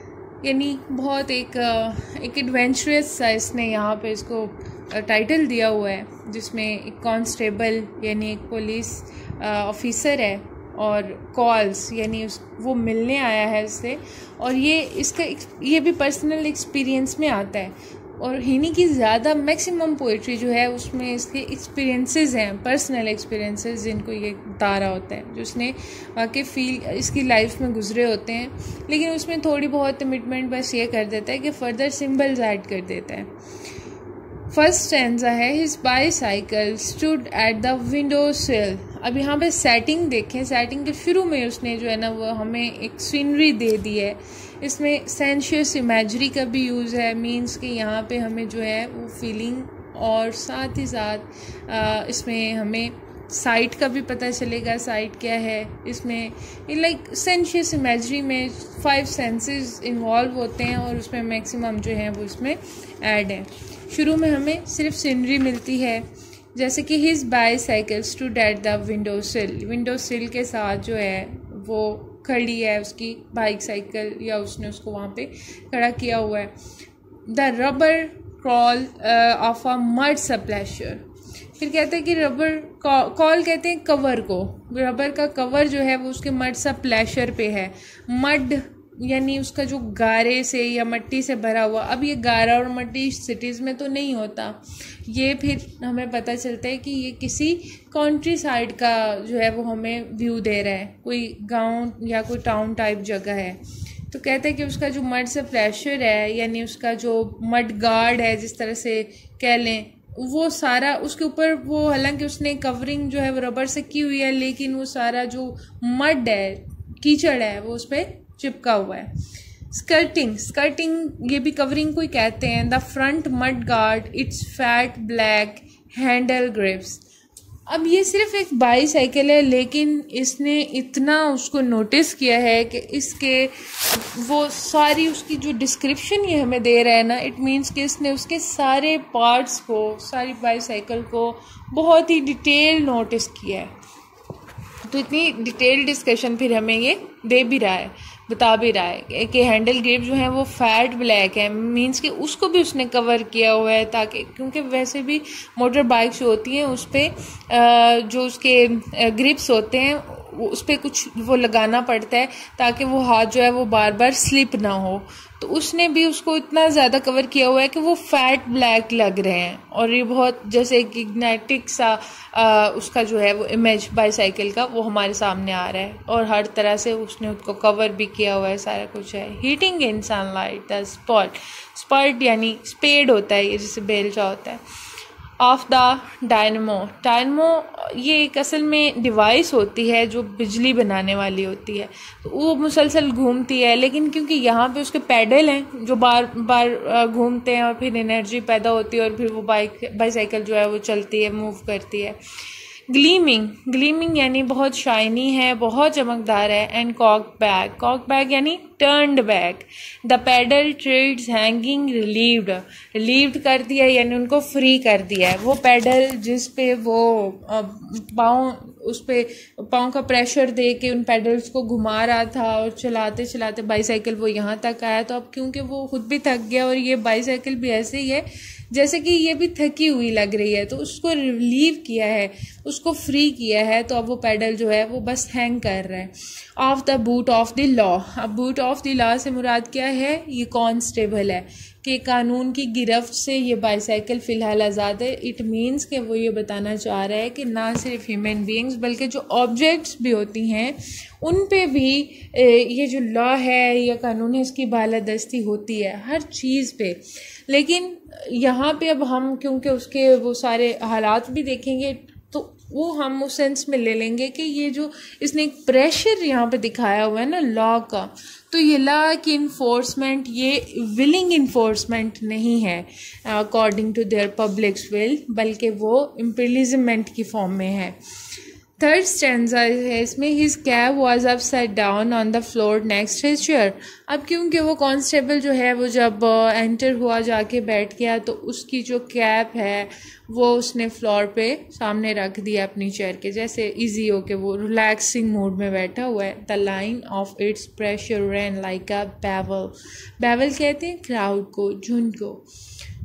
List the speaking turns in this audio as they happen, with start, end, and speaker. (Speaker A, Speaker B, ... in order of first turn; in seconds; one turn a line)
Speaker A: 0.4-33.3
Speaker A: 34.5-76.5
Speaker A: 77.3-81.0
Speaker A: 81.6-119.1
Speaker A: 119.7-127.0
Speaker A: 127.7-143.7
Speaker A: 144.8-184.6
Speaker A: 185.4-202.2
Speaker A: 202.9-278.0
Speaker A: 278.8-302.4